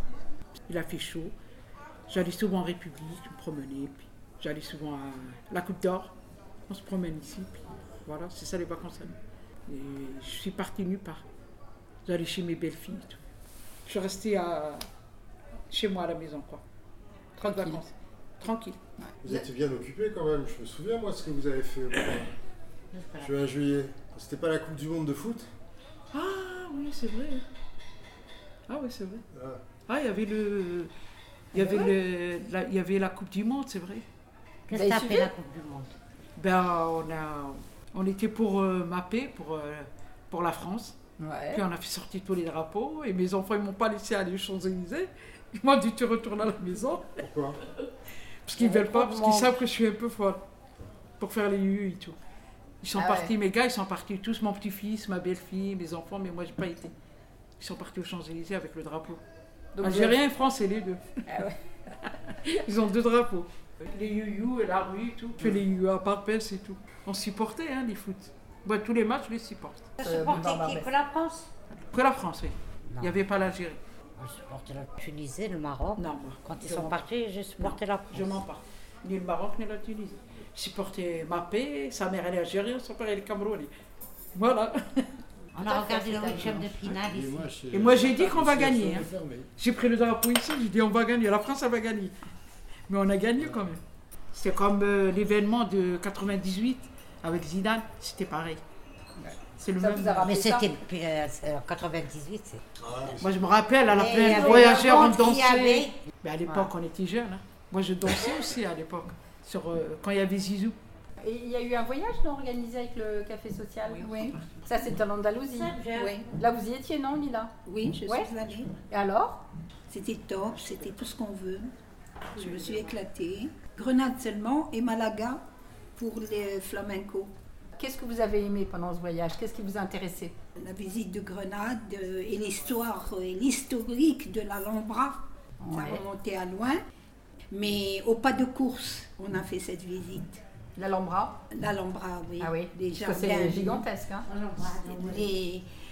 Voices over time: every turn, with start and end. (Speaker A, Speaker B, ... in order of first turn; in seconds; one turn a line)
Speaker A: 0.7-1.3
Speaker A: 2.1-6.1
Speaker A: 6.7-11.2
Speaker A: 12.0-13.2
Speaker A: 13.8-14.8
Speaker A: 15.7-16.6
Speaker A: 17.4-18.8
Speaker B: 17.4-17.8
Speaker B: 19.0-19.4
Speaker C: 19.2-22.4
Speaker D: 22.9-23.3
Speaker C: 23.1-25.5
Speaker A: 26.1-27.4
Speaker A: 28.7-29.2
Speaker C: 29.3-29.6
Speaker A: 29.9-30.9
Speaker A: 31.5-34.0
Speaker B: 31.5-31.9
Speaker D: 34.7-35.9
Speaker B: 34.7-35.3
Speaker A: 36.4-41.0
Speaker B: 41.2-41.6
Speaker A: 41.5-47.2
Speaker C: 47.2-47.6
Speaker A: 48.5-50.4
Speaker B: 48.6-49.5
Speaker A: 51.2-52.2
Speaker A: 52.8-56.9
Speaker B: 52.9-53.3
Speaker A: 57.6-59.2
Speaker B: 59.7-60.2
Speaker A: 59.8-61.2
Speaker B: 61.2-61.6
Speaker A: 62.3-69.9
Speaker D: 70.0-71.5
Speaker B: 70.0-70.9
Speaker A: 71.7-73.8
Speaker D: 74.2-78.4
Speaker A: 76.0-83.7
Speaker A: 84.3-85.0
Speaker D: 85.5-87.6
Speaker A: 85.6-86.9
Speaker C: 86.2-89.5
Speaker A: 87.7-92.2
Speaker A: 92.9-93.8
Speaker C: 93.4-93.7
Speaker A: 94.3-98.6
Speaker B: 99.2-100.8
Speaker A: 99.6-100.2
Speaker D: 100.2-102.6
Speaker C: 102.8-103.2
Speaker A: 103.1-110.8
Speaker D: 103.9-106.0
Speaker B: 104.3-104.8
Speaker B: 111.2-117.5
Speaker A: 113.8-114.5
Speaker D: 115.5-116.1
Speaker E: 115.9-116.3
Speaker E: 117.6-118.7
Speaker B: 118.8-119.4
Speaker E: 119.9-121.7
Speaker E: 122.3-125.4
Speaker E: 126.0-127.3
Speaker B: 127.8-130.3
Speaker E: 130.6-135.2
Speaker B: 135.6-136.0
Speaker E: 135.7-136.8
Speaker E: 137.5-140.4
Speaker B: 140.8-141.4
Speaker E: 141.5-143.8
Speaker B: 142.4-144.3
Speaker D: 144.2-145.4
Speaker E: 144.8-145.7